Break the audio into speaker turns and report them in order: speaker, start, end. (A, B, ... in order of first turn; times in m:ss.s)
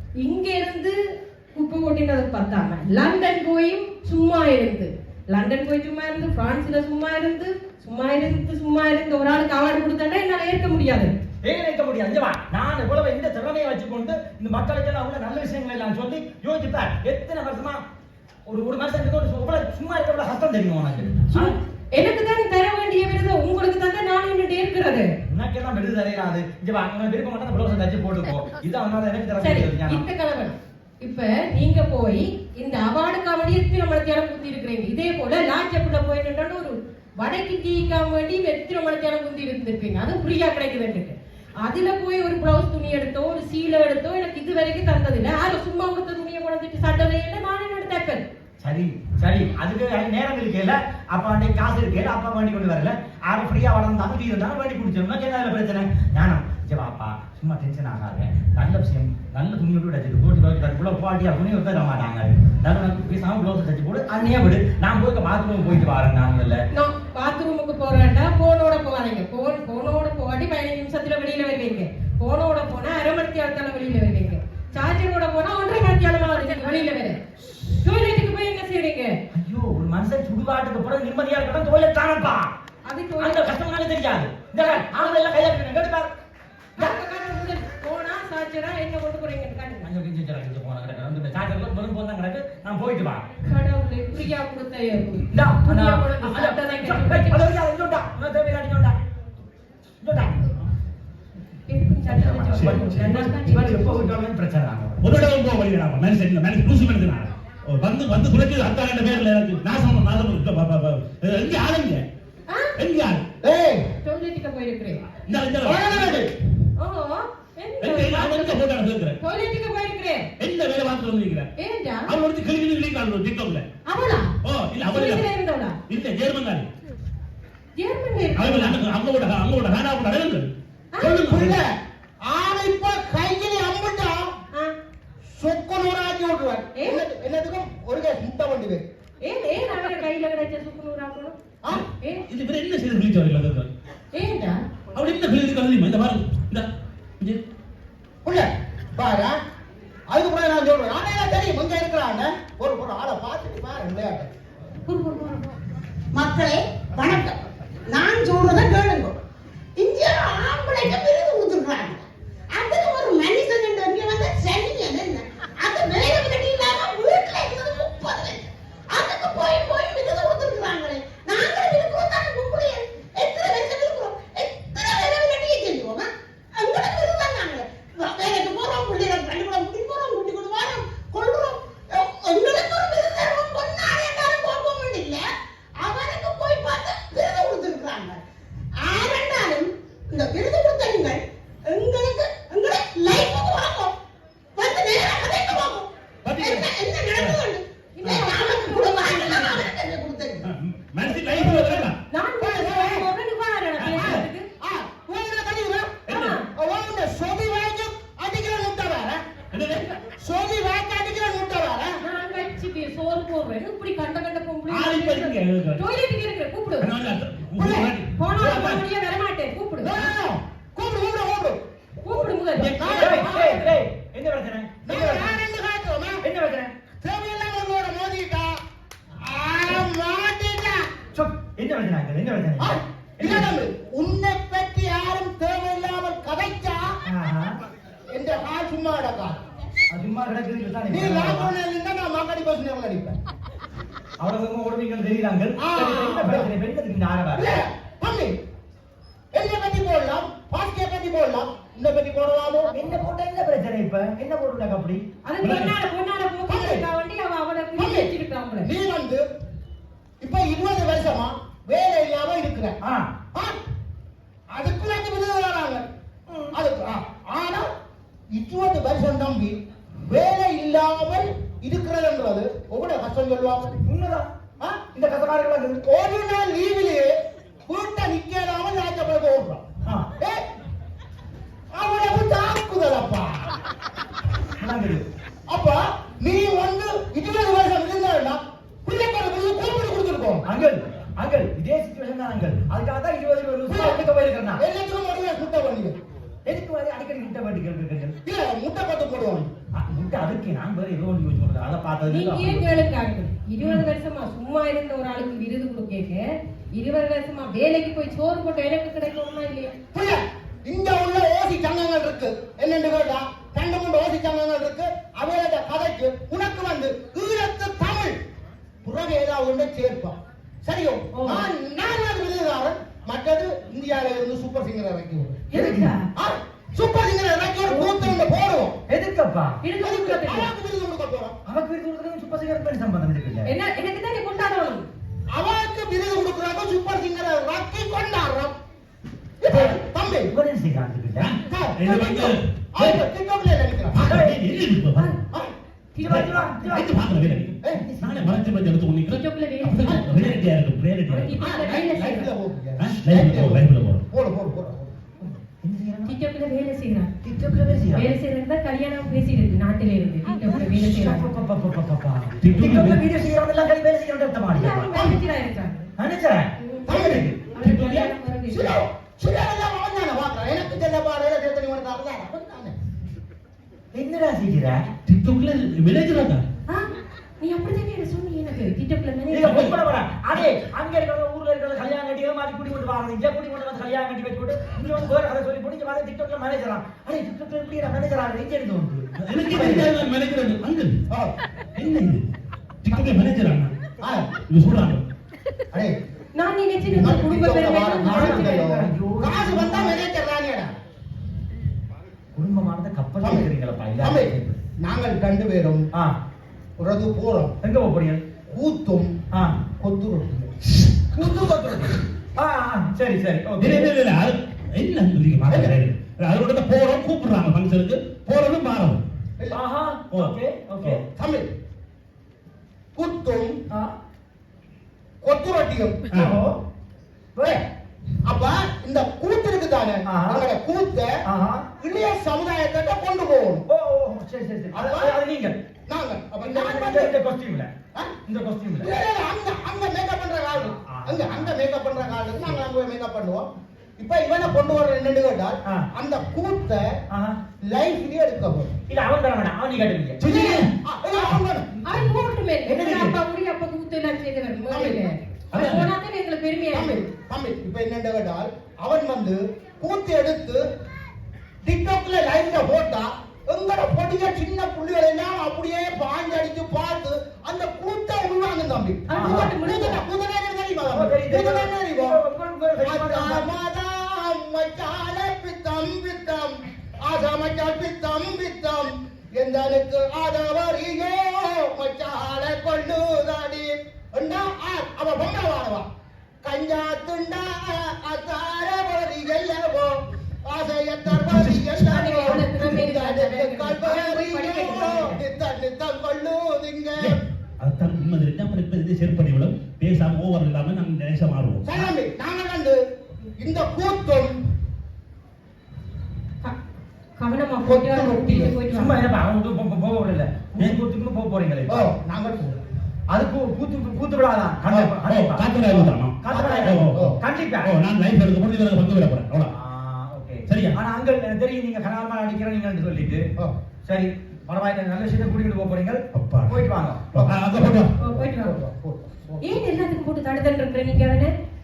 0:00.2-0:01.0 A
0:01.5-0:11.1 A
0:11.4-0:17.8 B
0:18.5-0:21.5 B
0:21.3-0:25.1 A
0:25.3-0:30.0 B
0:29.4-0:48.2 A
0:48.6-1:06.6 B
1:06.7-1:17.2 A
1:17.8-1:19.1 A
1:19.3-1:22.5 B
1:22.8-1:23.5 A
1:23.2-1:26.1 B
1:24.6-1:25.2 A
1:26.8-1:29.9 A
1:29.8-1:33.2 B
1:33.4-1:37.4 A
1:35.3-1:39.0 B
1:40.0-1:40.6 B
1:41.7-1:44.1 A
1:42.1-1:45.0 B
1:45.0-1:52.0 C
1:52.5-1:52.8 A
1:52.8-1:53.2 C
1:53.4-1:53.8 D
1:54.0-1:55.0 A
1:55.2-1:56.3 C
1:55.6-1:56.3 D
1:56.8-1:58.6 A
1:57.8-1:59.2 C
1:59.2-2:00.3 A
2:00.4-2:01.5 C
2:01.6-2:02.1 A
2:02.1-2:03.6 C
2:03.8-2:04.3 A
2:04.4-2:05.2 C
2:04.8-2:05.8 A
2:05.9-2:06.7 C
2:07.8-2:08.8 A
2:08.3-2:11.6 C
2:10.9-2:11.2 A
2:11.2-2:11.7 D
2:12.2-2:14.3 D
2:15.3-2:18.8 D
2:16.7-2:17.0 A
2:19.2-2:21.4 A
2:22.3-2:23.7 C
2:24.1-2:24.6 A
2:24.9-2:26.7 C
2:28.2-2:29.4 D
2:30.1-2:34.3 D
2:34.8-2:35.4 A
2:36.1-2:39.2 E
2:39.8-3:08.2 E
3:08.7-3:14.0 E
3:14.5-3:20.4 E
3:16.2-3:17.4 C
3:18.0-3:19.6 A
3:20.4-3:22.0 C
3:21.2-3:21.9 D
3:22.1-3:24.4 A
3:22.4-3:23.1 D
3:23.8-3:24.3 C
3:24.0-3:29.2 D
3:26.1-3:26.4 C
3:26.1-3:26.4 A
3:29.5-3:29.9 C
3:30.0-3:31.9 D
3:32.0-3:36.9 A
3:34.7-3:35.8 C
3:36.8-3:38.8 C
3:37.6-3:39.9 A
3:39.8-3:41.6 D
3:42.0-3:43.8 A
3:42.1-3:45.4 B
3:42.7-3:43.6 D
3:44.8-3:46.2 D
3:46.2-3:46.7 B
3:47.0-3:48.5 D
3:49.2-3:50.8 D
3:51.1-3:53.5 B
3:52.6-3:56.9 D
3:57.0-3:57.5 B
3:58.1-3:59.4 D
3:59.9-4:01.5 B
4:00.9-4:03.2 D
4:04.2-4:07.5 B
4:05.6-4:06.5 D
4:07.3-4:08.3 D
4:09.3-4:12.7 D
4:12.7-4:15.0 B
4:15.2-4:18.7 A
4:15.4-4:15.7 C
4:16.5-4:16.8 D
4:17.7-4:18.1 D
4:18.6-4:19.2 D
4:20.2-4:22.8 D
4:22.8-4:23.1 B
4:24.5-4:25.8 D
4:26.3-4:26.5 B
4:26.5-4:27.7 D
4:28.3-4:29.6 D
4:30.1-4:33.8 D
4:33.8-4:34.3 B
4:34.8-4:35.8 B
4:35.8-4:37.1 D
4:37.6-4:39.6 D
4:41.7-4:43.5 D
4:44.6-4:45.0 B
4:45.5-4:50.4 D
4:50.4-4:54.6 B
4:53.7-4:56.0 D
4:56.4-4:58.1 B
4:58.2-4:59.5 D
4:59.7-5:02.8 B
5:02.1-5:09.7 A
5:09.9-5:18.2 D
5:18.8-5:25.4 D
5:21.1-5:21.5 A
5:25.5-5:26.0 A
5:25.5-5:25.9 B
5:26.1-5:28.7 D
5:27.7-5:28.1 A
5:28.9-5:29.6 B
5:29.6-5:30.5 A
5:29.8-5:31.4 D
5:31.4-5:33.5 B
5:33.4-5:34.9 A
5:35.3-5:38.5 D
5:39.4-5:40.3 D
5:39.5-5:39.8 B
5:40.3-5:41.3 B
5:41.2-5:43.0 C
5:41.4-5:44.0 D
5:43.9-5:45.1 C
5:44.0-5:44.4 B
5:45.9-5:46.5 A
5:46.0-5:48.5 B
5:46.0-5:51.4 C
5:49.1-5:50.4 A
5:51.1-5:52.3 A
5:51.4-5:54.9 D
5:52.8-5:54.0 C
5:55.2-5:56.1 B
5:56.0-5:57.1 A
5:57.2-5:58.1 B
5:57.9-6:01.3 A
6:00.4-6:04.9 B
6:02.4-6:03.0 C
6:04.5-6:05.9 A
6:04.9-6:05.2 D
6:06.0-6:08.1 B
6:06.6-6:08.7 A
6:06.8-6:07.3 D
6:08.5-6:12.7 D
6:13.9-6:14.9 B
6:15.0-6:16.4 C
6:17.4-6:19.7 A
6:19.3-6:29.9 B
6:29.2-6:31.0 C
6:31.7-6:32.2 C
6:32.8-6:33.7 C
6:34.0-6:34.3 D
6:34.5-6:35.0 C
6:36.4-6:38.9 A
6:36.9-6:40.7 D
6:38.0-6:40.0 B
6:42.3-6:44.6 B
6:43.2-6:45.8 D
6:46.8-6:47.5 D
6:47.6-6:48.2 B
6:48.5-6:49.1 D
6:49.3-6:49.6 B
6:49.8-6:50.5 D
6:51.1-6:53.9 B
6:53.6-6:59.0 C
6:55.5-6:55.8 D
6:59.5-7:01.0 B
7:00.1-7:01.0 C
7:01.1-7:01.5 D
7:02.9-7:03.6 D
7:05.2-7:06.0 D
7:06.1-7:06.4 C
7:06.1-7:06.6 B
7:07.3-7:07.6 B
7:08.2-7:11.2 D
7:10.0-7:10.4 B
7:11.2-7:11.6 B
7:11.8-7:13.6 D
7:13.7-7:15.6 B
7:14.7-7:15.2 D
7:15.9-7:17.1 D
7:16.4-7:17.7 B
7:18.2-7:18.9 B
7:18.8-7:26.9 D
7:20.6-7:21.6 B
7:27.1-7:27.4 B
7:27.7-7:28.8 D
7:28.9-7:30.2 B
7:30.2-7:30.7 C
7:30.3-7:30.6 A
7:30.8-7:31.7 D
7:31.8-7:37.0 A
7:32.6-7:33.2 B
7:34.7-7:35.0 D
7:35.5-7:35.9 C
7:36.7-7:40.6 D
7:41.6-7:52.2 D
7:49.1-7:50.0 A
7:49.1-7:49.5 B
7:50.9-7:53.5 B
7:52.8-8:05.8 D
8:06.4-8:17.2 D
8:11.1-8:11.7 C
8:11.8-8:15.2 A
8:17.0-8:21.9 C
8:21.6-8:22.8 D
8:23.4-8:24.3 D
8:27.2-8:29.1 A
8:27.6-8:28.6 D
8:28.7-8:31.9 B
8:31.7-8:32.6 D
8:33.1-8:35.5 B
8:34.7-8:34.9 D
8:35.0-8:37.1 C
8:35.6-8:37.2 D
8:36.2-8:37.7 B
8:37.6-8:39.5 C
8:39.5-8:43.2 B
8:40.4-8:40.8 C
8:43.8-8:47.1 B
8:46.1-8:47.9 C
8:47.1-8:47.4 D
8:48.0-8:48.6 A
8:48.0-8:49.3 D
8:49.4-8:51.3 A